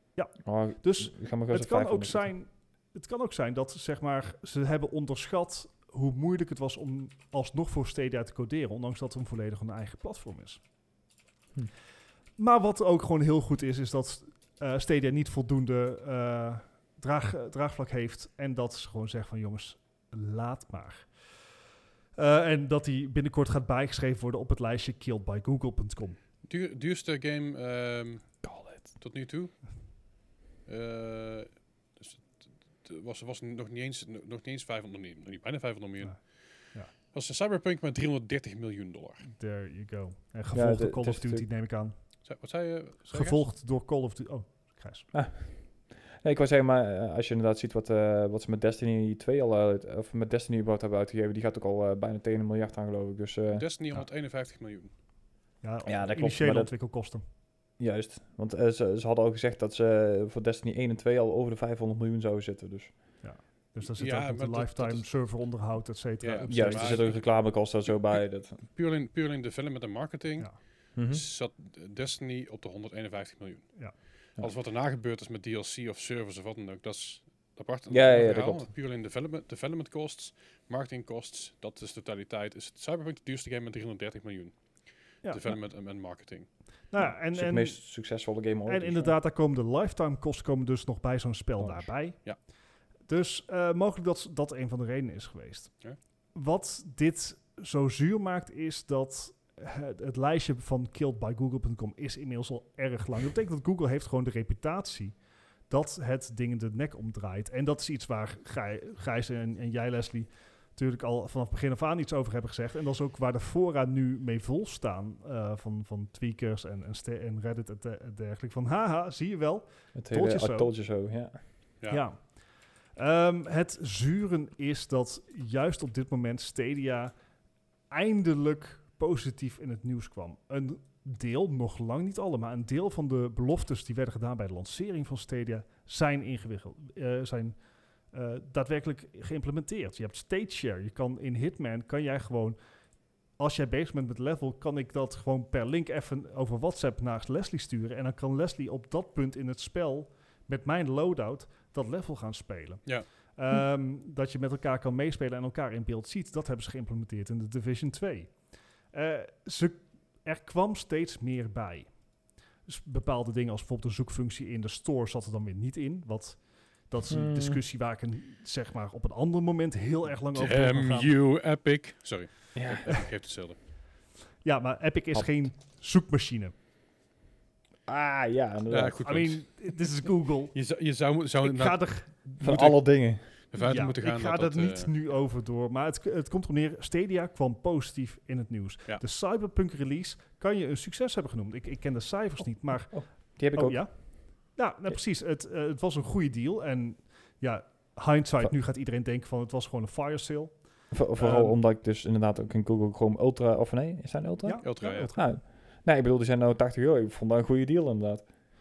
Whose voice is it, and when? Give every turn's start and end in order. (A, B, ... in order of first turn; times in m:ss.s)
0:00.2-0:10.6 A
0:00.4-0:02.3 B
0:12.4-0:21.2 A
0:22.2-0:26.2 A
0:26.4-0:29.5 C
0:28.4-0:28.9 B
0:30.7-0:39.3 C
0:39.2-0:42.0 A
0:40.5-0:41.4 B
0:42.2-0:43.4 C
0:43.1-0:45.1 A
0:45.1-0:53.7 B
0:53.5-0:54.9 C
0:55.6-0:57.2 A
0:55.9-0:56.7 B
0:57.8-1:03.0 B
1:03.2-1:07.1 A
1:03.9-1:05.1 C
1:06.2-1:24.6 C
1:06.5-1:08.7 B
1:11.0-1:11.2 B
1:17.9-1:18.7 B
1:25.2-1:26.5 C
1:25.2-1:25.5 A
1:26.9-1:27.8 A
1:27.3-1:29.2 B
1:28.7-1:32.4 A
1:31.6-1:31.9 B
1:33.1-1:45.2 A
1:45.7-2:00.7 A
2:00.0-2:01.4 B
2:01.9-2:02.2 A
2:03.0-2:07.1 A
2:07.9-2:17.6 A
2:18.1-2:22.6 A
2:23.4-2:38.4 A
2:38.9-2:41.9 A
2:42.7-2:51.2 A
2:47.1-2:47.6 B
2:50.3-2:53.6 C
2:52.6-2:53.0 B
2:54.4-2:56.5 A
2:57.9-2:59.0 B
2:58.7-2:59.5 C
2:59.1-3:00.6 A
3:00.5-3:04.9 C
3:01.4-3:02.2 A
3:02.4-3:03.2 B
3:03.6-3:20.6 A
3:12.9-3:13.8 B
3:20.9-3:28.3 B
3:21.2-3:21.6 A
3:24.4-3:25.2 A
3:24.6-3:25.1 C